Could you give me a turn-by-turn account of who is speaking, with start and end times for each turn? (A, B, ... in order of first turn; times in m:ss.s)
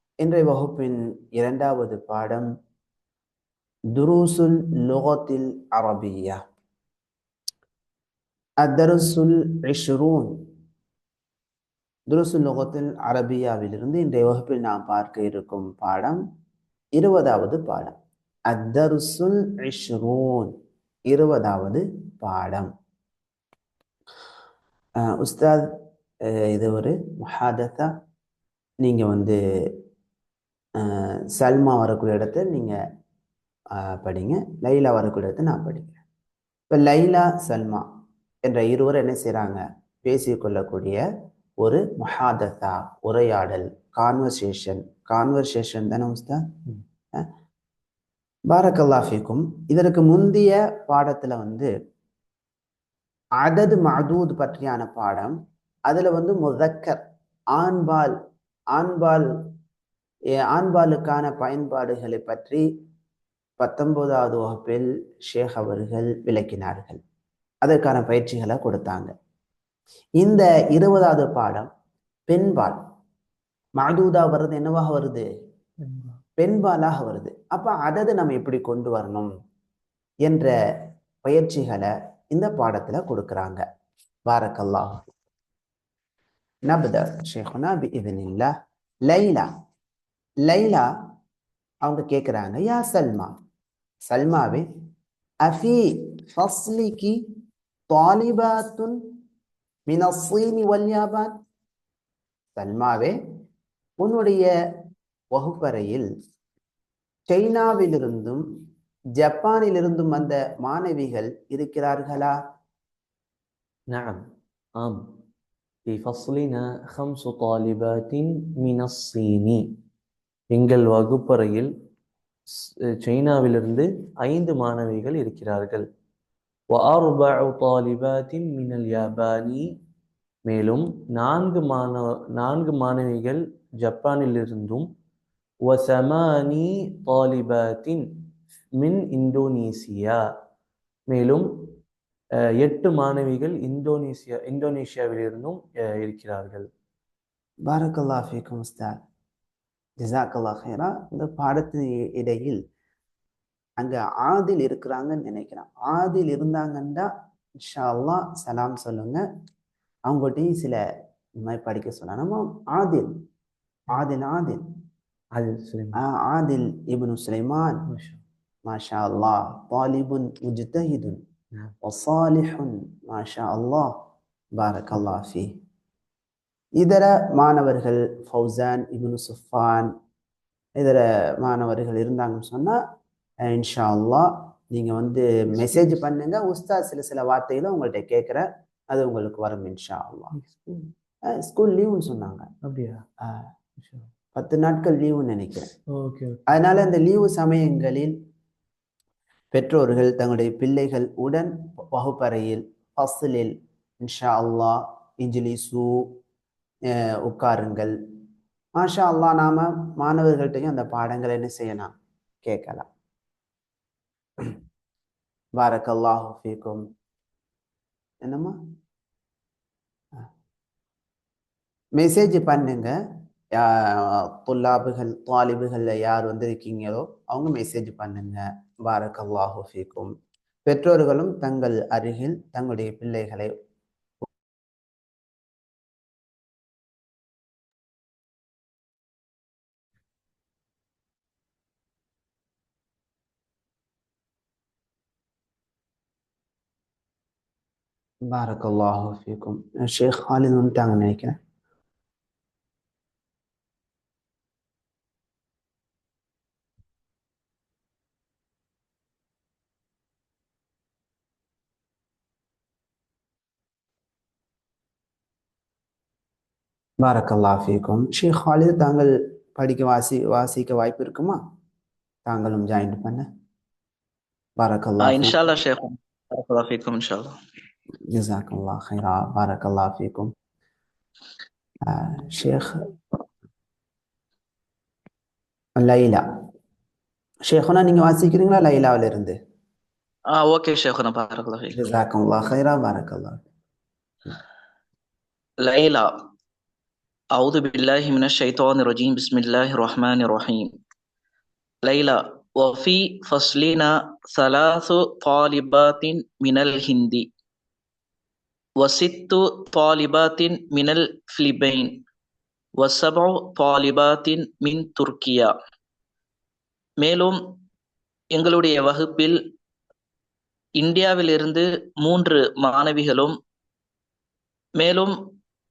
0:00.2-0:02.4 A
0:03.9-0:06.4 A
0:08.6-0:10.3 A
0:12.1-0:16.2 A
0:17.0-0:17.9 A
0:18.5-0:20.5 A
0:21.1-0:22.7 A
0:25.1-0:25.7 A
0:26.5-0:27.9 A
0:28.8-0:29.4 A
0:30.8-0:32.7 A
0:34.0-0:36.0 A
0:36.7-0:37.8 A
0:38.4-0:41.0 A
0:41.6-0:46.4 A
0:48.5-0:51.7 A
0:53.4-0:55.3 A
0:55.9-0:57.0 A
0:57.6-0:58.1 A
0:58.7-0:59.2 A
1:00.5-1:02.6 A
1:03.6-1:07.0 A
1:07.6-1:09.1 A
1:10.2-1:11.7 A
1:12.3-1:12.8 A
1:13.8-1:15.2 A
1:15.8-1:16.2 B
1:16.4-1:19.3 A
1:21.2-1:23.6 A
1:24.3-1:25.0 A
1:26.7-1:28.5 A
1:29.1-1:29.4 A
1:30.5-1:30.8 A
1:31.8-1:33.3 A
1:34.1-1:34.6 A
1:35.4-1:37.1 A
1:37.9-1:38.9 A
1:39.9-1:41.3 A
1:42.6-1:43.1 A
1:44.0-1:44.5 A
1:45.3-1:46.0 A
1:47.3-1:48.4 A
1:49.2-1:52.3 A
1:53.9-1:54.2 B
1:55.9-1:59.6 B
2:00.5-2:01.7 B
2:03.0-2:05.8 B
2:06.7-2:09.6 B
2:10.4-2:14.9 B
2:15.7-2:18.0 B
2:18.8-2:20.2 B
2:21.1-2:21.5 B
2:22.6-2:26.7 B
2:27.7-2:28.9 A
2:30.0-2:32.6 A
2:33.8-2:37.1 A
2:37.6-2:39.2 A
2:40.1-2:40.8 A
2:41.4-2:43.1 A
2:43.9-2:44.6 A
2:45.3-2:46.0 B
2:46.0-2:47.8 A
2:47.9-2:48.2 B
2:48.7-2:51.2 A
2:51.8-2:53.9 A
2:54.6-2:55.5 A
2:56.8-2:59.9 A
3:00.8-3:02.8 A
3:03.5-3:10.3 A
3:05.6-3:06.0 B
3:10.3-3:10.9 B
3:11.4-3:12.4 A
3:12.6-3:13.0 B
3:13.8-3:14.1 B
3:14.4-3:15.7 A
3:15.9-3:16.4 B
3:16.5-3:18.1 A
3:19.5-3:23.5 A
3:24.0-3:25.9 A
3:27.2-3:27.9 A
3:28.8-3:31.9 A
3:32.4-3:32.8 A
3:35.6-3:36.8 A
3:38.2-3:38.5 A
3:42.0-3:42.9 A
3:43.6-3:50.1 A
3:50.6-3:53.5 A
4:08.3-4:11.3 A
4:27.0-4:31.4 A
4:32.3-4:33.2 A
4:34.6-4:35.4 A
4:35.0-4:37.3 C
4:38.1-4:40.3 A
4:41.9-4:42.7 A
4:45.8-4:46.2 A
4:47.5-4:49.4 A
4:50.3-4:51.8 C
4:51.7-4:53.4 A
4:55.6-4:56.1 C
4:57.3-5:00.7 C
5:01.8-5:07.2 C
5:08.8-5:12.0 C
5:12.8-5:15.5 C
5:17.0-5:17.4 C
5:18.3-5:19.4 C
5:20.8-5:23.3 C
5:24.8-5:25.1 C